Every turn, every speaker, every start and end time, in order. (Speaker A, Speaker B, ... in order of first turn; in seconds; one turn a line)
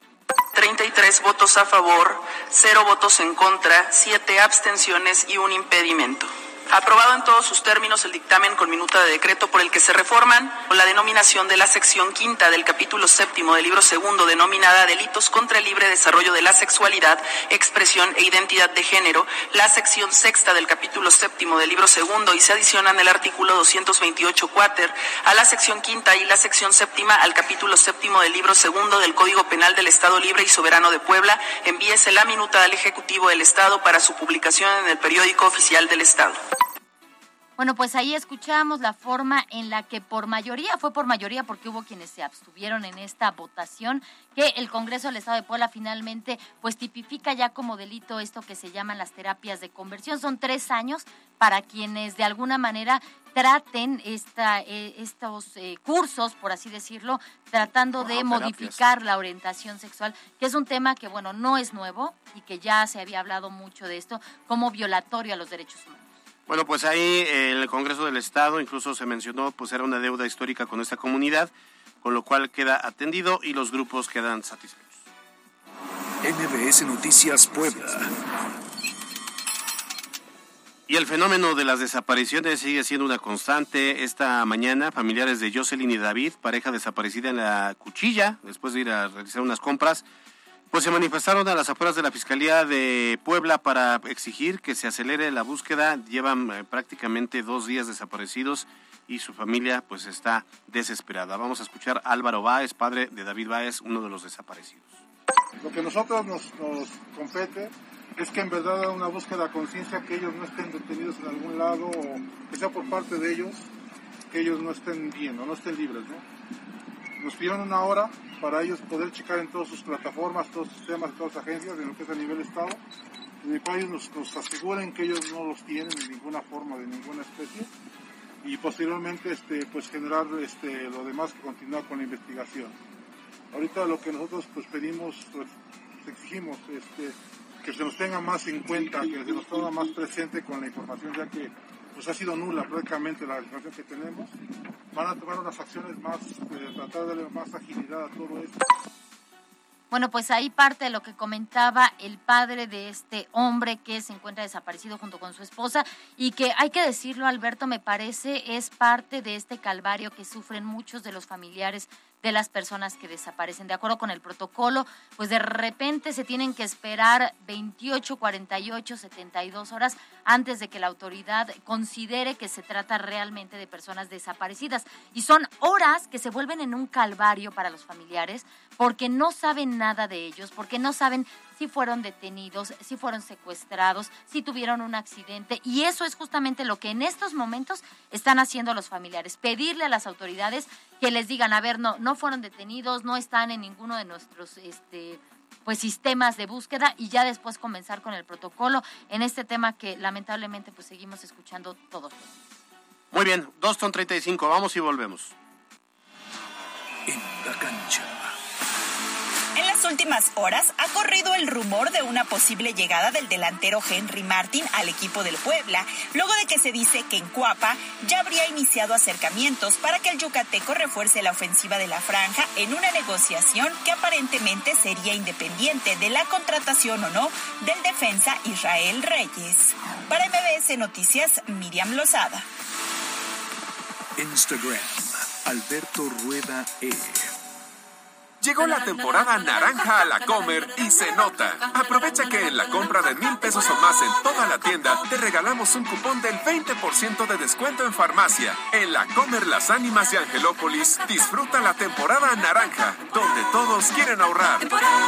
Speaker A: 0.5-36.4
Speaker B: 37.6-66.1
Speaker C: 57.9-58.8
Speaker C: 66.5-75.0
Speaker D: 76.2-78.1
Speaker C: 80.9-90.0
Speaker C: 90.7-105.0
Speaker E: 105.6-113.7
Speaker E: 114.3-116.2
Speaker E: 117.2-122.8
Speaker E: 123.4-127.7
Speaker E: 128.4-132.8
Speaker E: 133.5-144.3
Speaker E: 144.9-148.6
Speaker B: 149.9-202.4
Speaker C: 203.1-205.3
Speaker D: 207.1-208.3
Speaker F: 209.5-232.4
Speaker D: 234.2-237.3
Speaker G: 238.4-254.7